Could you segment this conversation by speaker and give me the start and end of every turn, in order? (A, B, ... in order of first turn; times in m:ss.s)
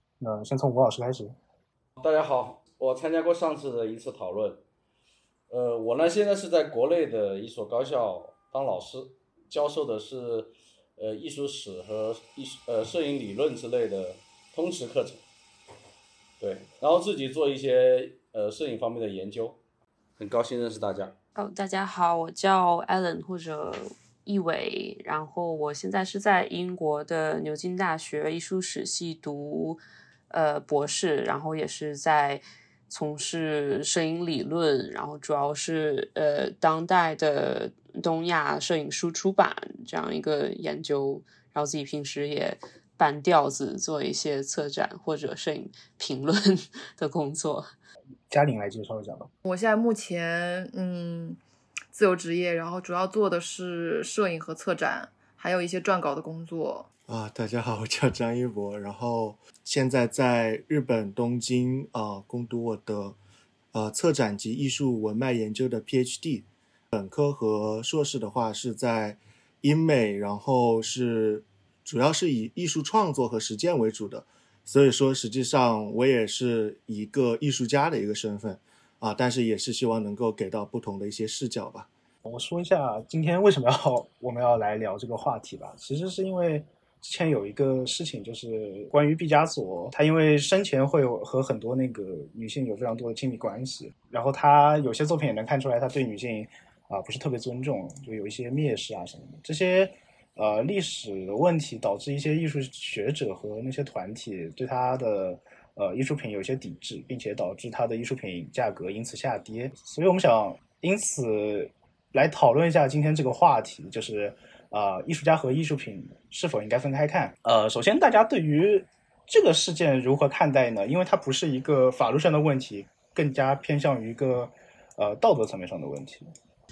0:00.2-0:01.3 A
0:02.0-0:04.6 B
0:05.5-0:15.2 B
0:16.4-0:19.6 B
0:20.2-0:21.1 B
0:21.4-0:47.7 C
0:48.3-0:49.3 A
0:49.4-0:51.4 D
0:51.9-0:56.9 D
0:57.1-1:03.2 E
1:03.7-1:21.9 E
1:22.2-2:06.2 A